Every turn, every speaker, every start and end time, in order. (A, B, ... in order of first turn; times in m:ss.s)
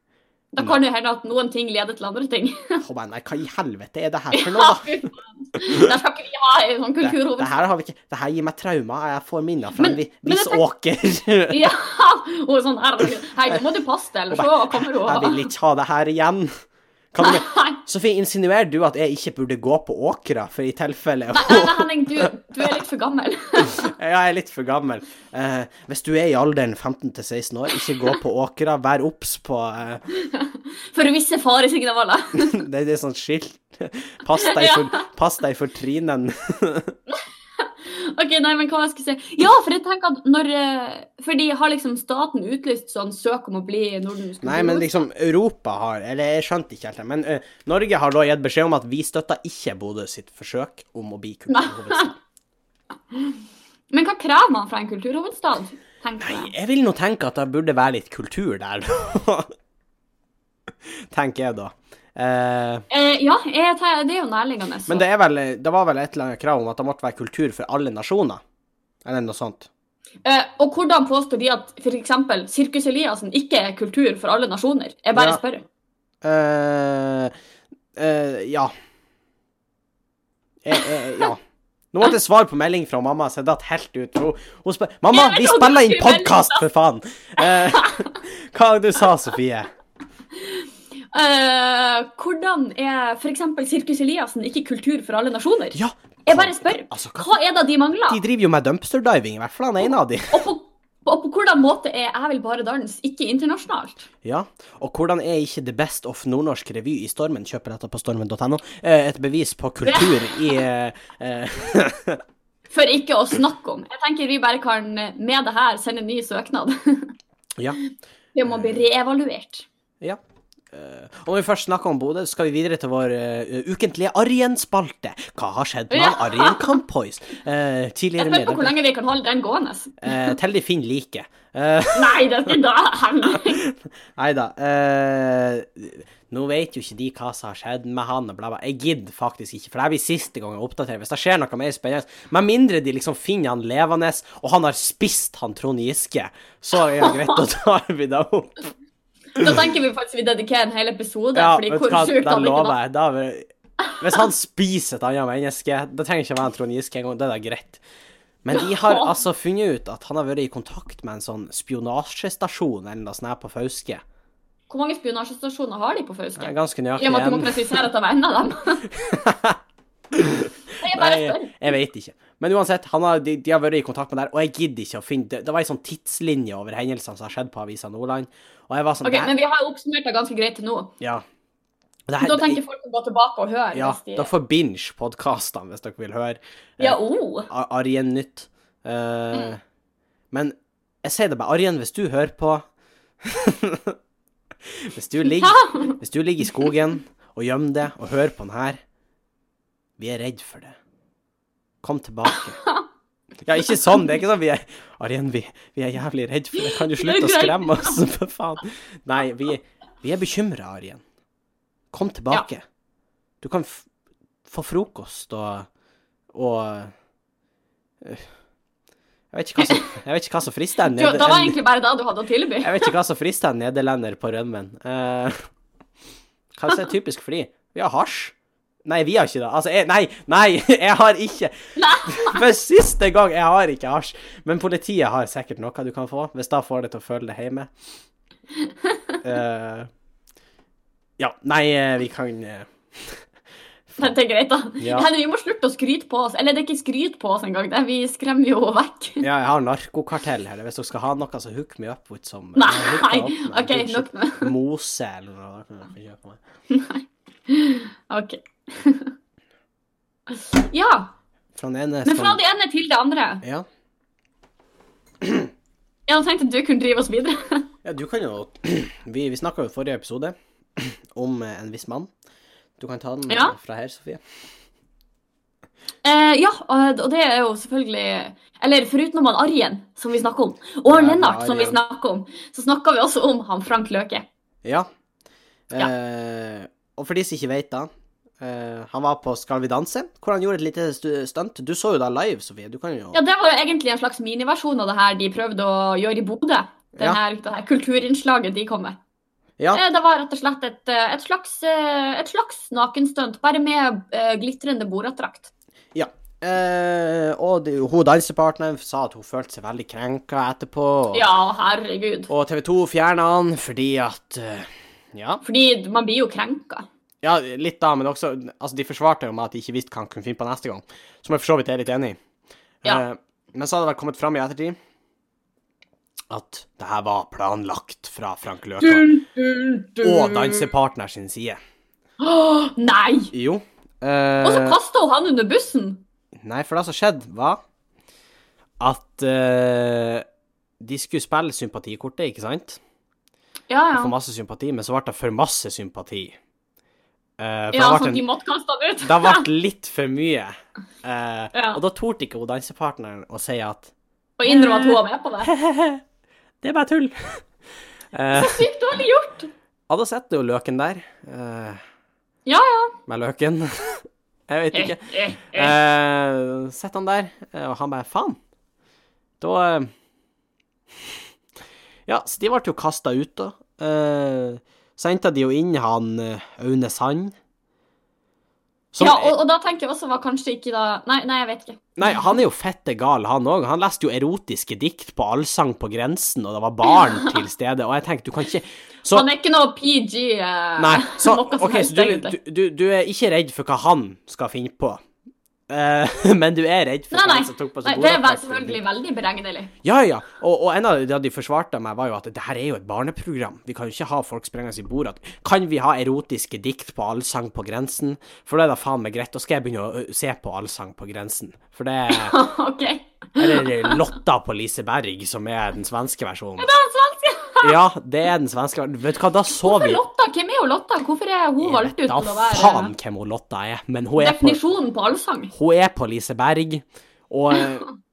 0:00.5-0:02.8 A
0:02.8-0:04.9 B
0:04.3-0:07.6 A
0:07.0-0:11.7 B
0:09.8-0:10.6 A
0:11.5-0:15.5 A
0:14.3-0:16.5 B
0:17.1-0:22.8 B
0:17.2-0:17.8 A
0:21.3-0:23.9 A
0:23.6-0:30.0 B
0:30.1-0:32.6 A
0:32.4-0:37.0 B
0:34.4-0:35.0 A
0:37.6-0:45.0 A
0:44.4-0:52.2 B
0:51.5-0:52.1 A
0:53.9-0:56.5 A
0:56.2-0:59.5 B
1:00.8-1:02.8 B
1:02.9-1:05.0 A
1:04.9-1:08.4 B
1:09.0-1:09.7 B
1:10.2-1:15.6 A
1:15.2-1:15.4 B
1:16.2-1:17.3 B
1:18.0-1:18.7 B
1:20.6-1:21.4 B
1:21.9-1:29.7 B
1:25.1-1:26.6 A
1:27.4-1:28.0 A
1:30.4-1:38.2 A
1:35.8-1:37.3 B
1:38.1-1:40.5 B
1:40.3-1:44.1 A
1:44.2-1:52.2 B
1:49.8-1:50.6 A
1:52.7-1:57.1 A
1:57.8-1:59.7 A
1:58.5-1:58.8 B
2:00.7-2:08.8 B
2:05.9-2:06.8 A
2:08.2-2:10.3 A
2:10.0-2:12.6 B
2:11.9-2:13.6 A
2:13.3-2:28.6 B
2:26.8-2:27.4 A
2:29.4-2:29.6 B
2:29.4-2:32.8 A
2:31.4-2:33.4 B
2:34.0-2:37.8 B
2:38.4-2:44.0 B
2:38.5-2:39.1 A
2:44.7-2:48.9 A
2:46.4-2:47.8 B
2:48.9-2:49.6 B
2:50.1-2:59.3 B
2:50.8-2:51.6 A
2:59.0-3:00.9 A
3:02.1-3:02.6 B
3:02.2-3:04.3 A
3:03.7-3:09.6 B
3:06.8-3:07.5 A
3:10.3-3:12.7 B
3:13.2-3:14.0 B
3:14.7-3:18.8 B
3:15.4-3:16.0 A
3:20.0-3:20.8 B
3:21.8-3:22.6 B
3:22.3-3:22.8 A
3:23.5-3:31.0 B
3:26.6-3:28.0 A
3:31.9-3:32.6 B
3:33.4-3:33.9 B
3:34.5-3:35.7 B
3:36.3-3:36.9 B
3:38.0-3:38.3 B
3:39.3-3:41.6 B
3:39.6-3:39.9 A
3:40.9-3:42.9 A
3:42.6-3:45.4 B
3:46.5-3:48.3 B
3:48.8-3:51.5 B
3:51.8-3:52.4 A
3:52.0-3:57.7 B
3:58.7-3:59.2 A
3:59.2-3:59.9 B
4:01.2-4:03.2 B
4:04.0-4:09.3 A
4:04.8-4:05.1 B
4:09.2-4:16.4 B
4:12.6-4:14.5 A
4:16.7-4:19.1 A
4:20.3-4:21.1 A
4:21.6-4:22.4 B
4:22.0-4:23.4 A
4:25.2-4:25.5 B
4:26.1-4:27.7 A
4:27.8-4:32.1 B
4:32.8-4:34.2 B
4:33.3-4:33.6 A
4:36.0-4:44.3 A
4:40.9-4:41.8 B
4:45.7-4:47.9 B
4:48.4-4:53.2 B
4:53.1-4:59.0 A
4:59.7-5:05.5 A
5:06.0-5:11.3 B
5:11.1-5:12.3 A
5:12.3-5:15.4 B
5:15.4-5:16.9 A
5:17.2-5:22.2 B
5:22.8-5:24.8 B
5:26.3-5:29.1 B
5:28.8-5:30.7 A
5:30.0-5:31.6 B
5:32.2-5:33.3 A
5:33.3-5:34.8 B
5:34.4-5:36.0 A
5:36.4-5:37.6 B
5:38.8-5:40.2 B
5:40.8-5:42.8 B
5:43.7-5:44.1 A
5:43.9-5:46.4 B
5:47.4-5:48.2 B
5:47.7-5:49.5 A
5:49.0-5:53.9 B
5:51.5-5:51.8 A
5:54.4-5:55.5 A
5:54.5-5:56.0 B
5:56.6-5:57.4 B
5:58.1-5:58.7 B
5:58.3-5:59.5 A
5:59.9-6:01.8 B
6:02.5-6:03.0 A
6:03.1-6:08.4 B
6:04.7-6:05.7 A
6:09.4-6:09.9 B
6:12.1-6:17.4 B
6:18.9-6:19.3 B
6:19.0-6:21.8 A
6:22.0-6:29.3 B
6:27.1-6:27.4 A
6:29.1-6:32.4 A
6:30.8-6:35.0 B
6:35.7-6:38.8 B
6:37.1-6:39.7 A
6:39.8-6:52.4 B
6:52.1-6:54.0 A
6:53.4-6:56.7 B
6:56.6-6:57.8 A
6:57.6-7:00.0 B
6:59.6-7:02.9 A
7:01.6-7:04.6 B
7:04.2-7:05.5 A
7:05.5-7:07.9 B